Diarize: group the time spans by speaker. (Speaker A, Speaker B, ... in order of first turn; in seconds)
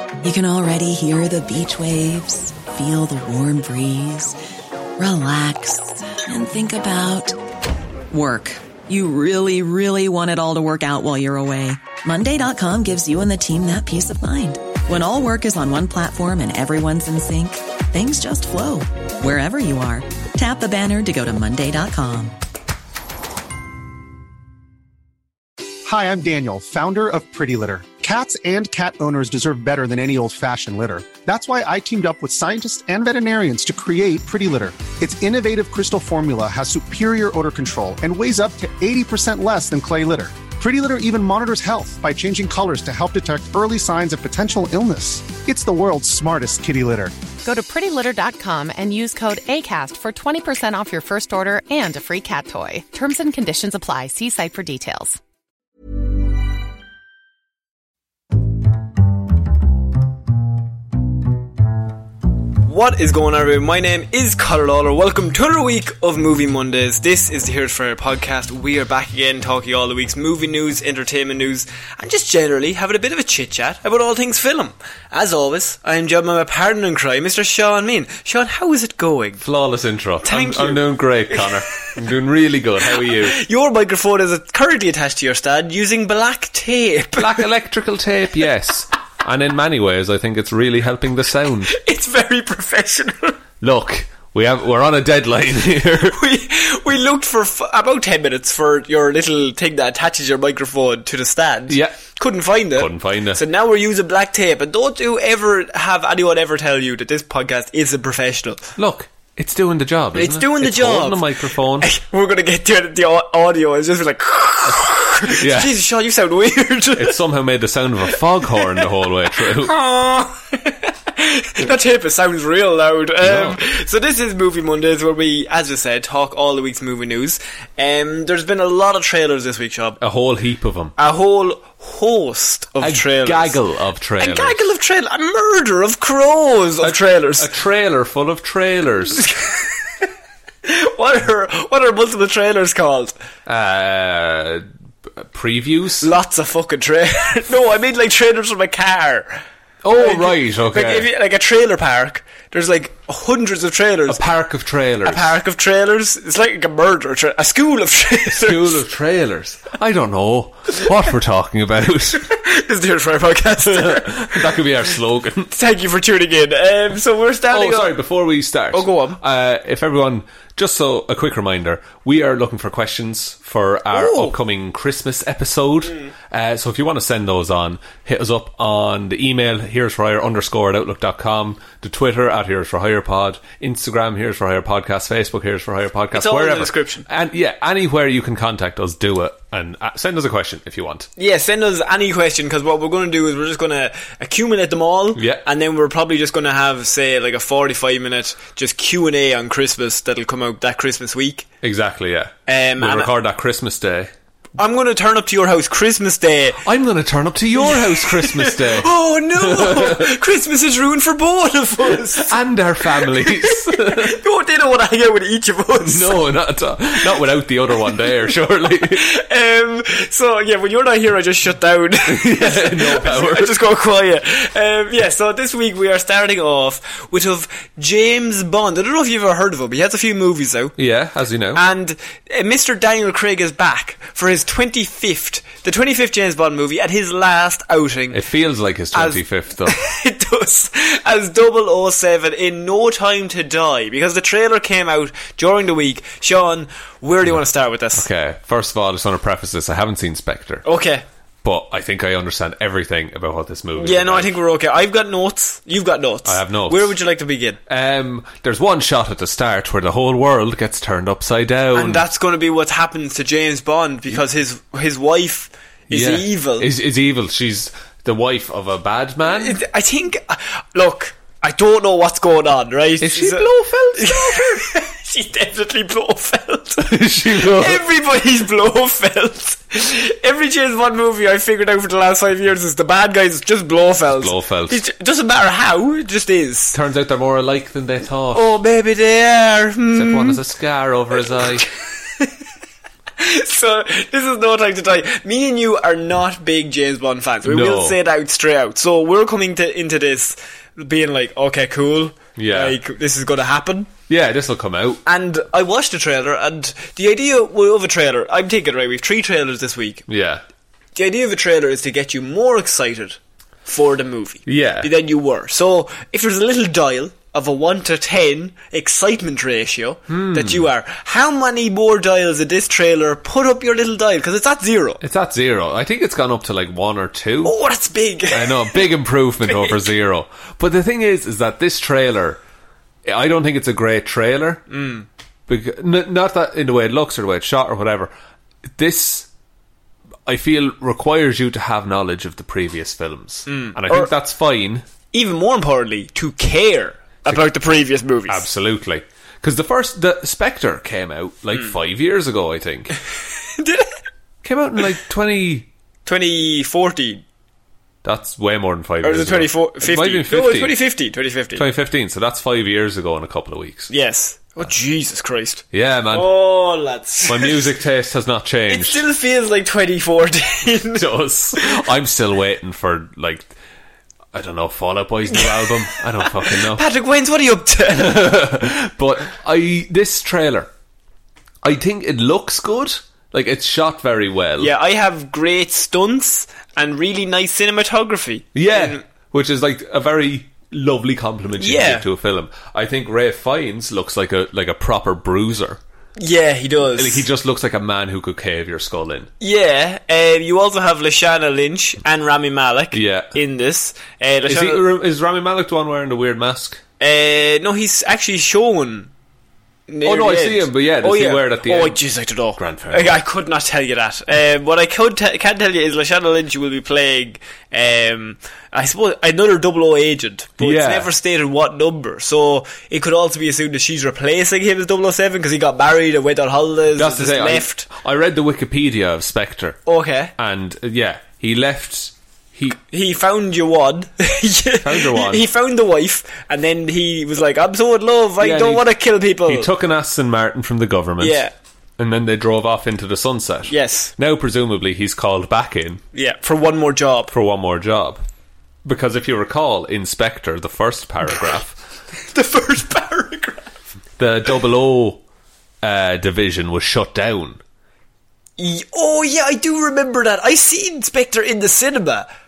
Speaker A: 0.2-4.4, 5.0-7.4, 8.1-22.4
Speaker B: 25.8-47.1
Speaker C: 47.4-55.2
Speaker D: 62.6-79.4, 80.2-81.5, 82.9-87.4, 91.7-93.4, 96.1-108.7, 110.1-111.2, 111.8-117.2, 118.5-118.8, 119.4-130.0, 131.0-133.6, 134.2-137.5, 139.2-140.1, 140.7-143.1, 146.0-149.4, 149.9-154.2, 155.0-158.8, 162.2-164.6, 165.5-168.0, 168.7-169.2, 173.9-174.3, 186.1-187.1, 191.2-201.5, 202.5-203.1, 204.6-206.6, 207.6-216.2, 218.7-230.8, 231.5-238.2, 238.9-248.1, 250.6-251.0, 253.8-257.6, 261.7-266.7, 269.2-286.8, 288.3-290.4, 291.2-292.3, 293.2-303.9, 305.1-310.0, 310.9-325.0, 327.4-328.9, 329.4-329.8, 334.7-335.1, 343.5-344.1, 345.1-348.4, 353.6-353.9, 356.1-357.2, 359.0-361.6, 363.9-367.8, 368.7-371.8, 375.3-378.4, 384.6-389.0, 391.6-392.0, 396.2-397.2, 399.4-404.9, 407.0-409.1, 409.9-427.9, 429.9-430.3, 432.9-439.7, 441.2-441.5, 443.7-444.1, 446.1-447.3, 452.3-453.8, 458.6-462.3
Speaker E: 79.4-83.4, 87.2-91.8, 93.6-96.2, 101.7-102.0, 102.8-103.4, 108.8-111.9, 114.7-115.8, 117.0-119.7, 123.2-123.6, 130.0-130.9, 132.8-134.6, 136.8-139.2, 143.5-146.1, 149.8-151.1, 154.1-155.4, 158.3-162.2, 163.7-165.5, 167.5-191.1, 195.2-195.4, 201.6-204.1, 206.7-210.1, 211.9-214.2, 215.8-219.0, 222.1-223.6, 230.8-231.6, 238.1-239.8, 248.0-250.7, 251.4-254.4, 256.2-257.0, 257.7-262.0, 265.9-269.6, 273.0-274.6, 276.8-277.8, 284.1-284.8, 286.7-288.5, 289.9-291.6, 297.4-298.0, 302.4-302.8, 304.1-305.0, 310.1-310.4, 314.5-314.9, 320.1-320.7, 325.0-327.5, 328.3-332.4, 333.0-334.6, 335.5-338.1, 338.8-339.3, 340.3-344.8, 348.3-353.0, 354.4-355.7, 358.0-360.8, 361.5-363.9, 365.7-366.3, 367.3-369.0, 370.9-373.5, 374.3-376.9, 377.9-380.7, 381.6-384.7, 388.5-395.8, 397.0-399.3, 402.9-403.4, 404.5-406.8, 410.0-412.0, 412.6-413.2, 420.6-421.1, 426.9-429.8, 430.4-432.8, 434.8-435.4, 438.4-438.9, 439.5-441.4, 442.0-446.0, 447.3-448.2, 448.9-451.8, 454.2-455.2, 455.8-457.6